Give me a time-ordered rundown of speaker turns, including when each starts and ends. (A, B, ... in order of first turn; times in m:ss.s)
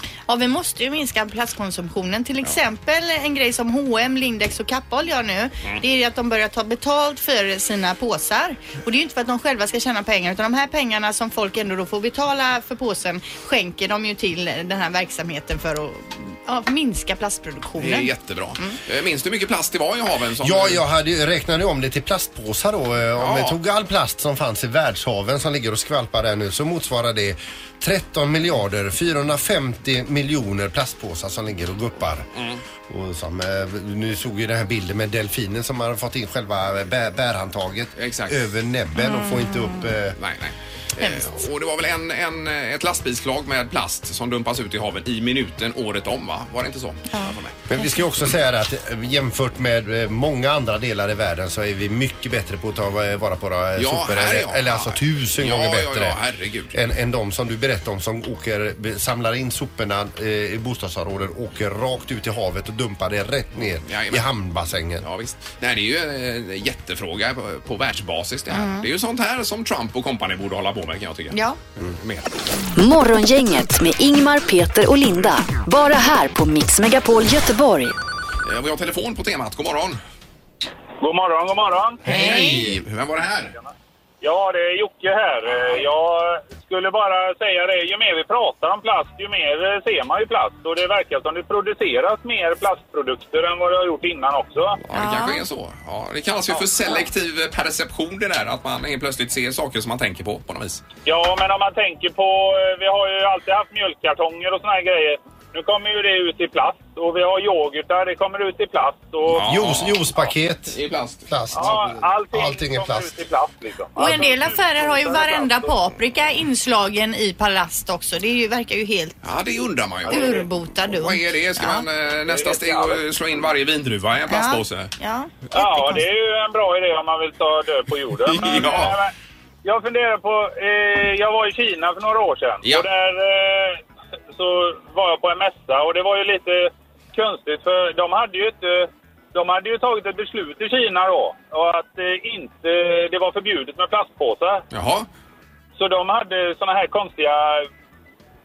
0:00.3-0:18.8 A
0:17.8-0:20.8 B
0:20.4-0:32.3 C
0:23.2-0:23.6 B
0:32.4-0:32.6 B
0:32.9-0:40.2 C
0:38.0-0:38.4 B
0:39.0-0:39.7 A
0:40.2-0:47.6 B
0:41.0-0:41.4 A
0:47.1-0:47.9 A
0:47.7-0:56.2 C
0:53.8-0:56.8 B
0:56.7-1:05.1 C
1:03.8-1:04.3 B
1:05.0-1:12.3 B
1:08.5-1:08.9 A
1:11.3-1:11.6 A
1:12.8-1:18.0 D
1:18.4-1:20.0 B
1:21.0-1:22.0 E
1:22.0-1:23.6 B
1:22.1-1:22.8 A
1:24.2-1:34.8 E
1:34.8-1:40.8 B
1:34.9-1:35.4 A
1:41.1-1:49.5 E
1:49.3-1:51.3 B
1:49.4-1:50.8 C
1:51.3-1:53.1 C
1:51.5-1:55.7 E
1:54.0-1:59.2 A
1:59.2-2:04.9 B
2:00.1-2:01.8 A
2:02.3-2:03.0 E
2:04.3-2:06.0 A
2:05.5-2:09.1 E
2:08.2-2:09.0 B
2:09.6-2:13.8 E
2:14.3-2:24.6 E
2:24.7-2:25.1 B
2:25.8-2:27.7 E